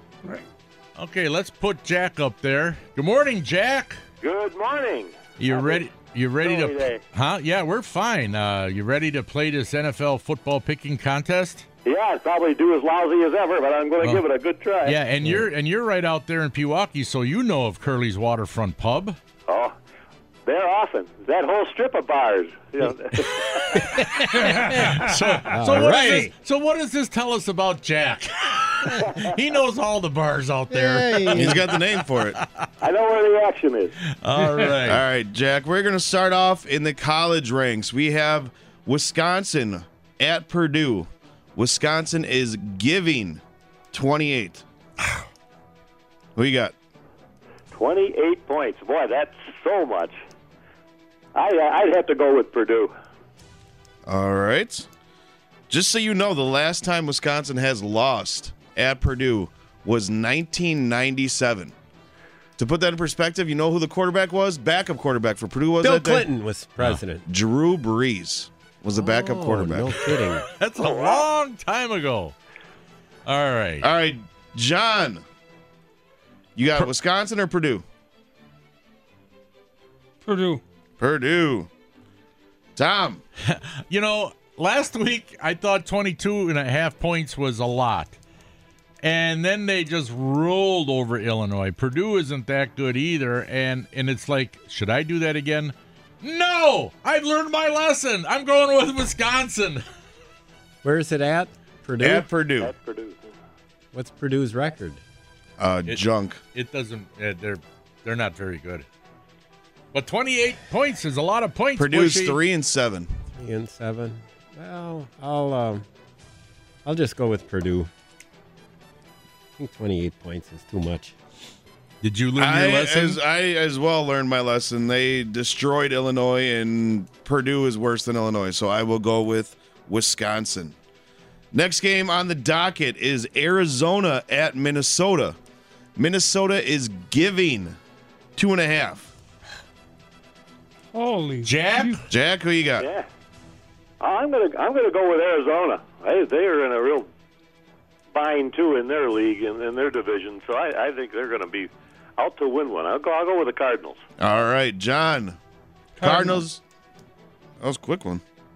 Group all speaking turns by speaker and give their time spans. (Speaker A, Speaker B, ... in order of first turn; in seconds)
Speaker A: 0.9-4.0, 5.4-11.7, 14.8-19.2, 23.2-31.8, 32.4-32.6, 34.1-35.0, 70.1-72.3, 73.2-73.9, 83.4-88.2, 89.0-99.8, 106.5-108.8, 109.9-112.4, 122.0-123.2, 141.4-142.0
Speaker B: 4.2-5.8, 6.4-7.0, 11.8-15.0, 19.5-19.7, 20.4-23.8, 32.8-33.9, 47.7-50.1, 51.3-52.9, 70.8-71.2, 102.6-103.3, 142.8-143.1, 144.0-147.1, 148.1-154.0
Speaker C: 23.9-26.3, 30.7-31.6, 65.8-67.2, 69.0-70.4, 100.8-102.3, 103.9-105.0, 113.3-115.8, 116.8-117.9, 119.6-121.1
Speaker D: 24.4-25.5, 80.2-80.6, 140.9-142.0, 156.0-156.4
Speaker E: 31.3-32.4, 34.8-44.6, 46.4-46.7, 54.1-54.9, 55.7-61.7, 62.6-66.2, 67.3-70.1, 73.8-75.2, 76.5-77.8, 81.0-81.7, 82.8-83.2, 102.0-102.7, 105.6-106.4, 111.8-113.1, 122.4-130.7, 131.5-135.4, 135.9-137.8, 138.3-139.1, 142.1-142.9, 154.2-155.4, 156.0-156.6, 157.6-158.2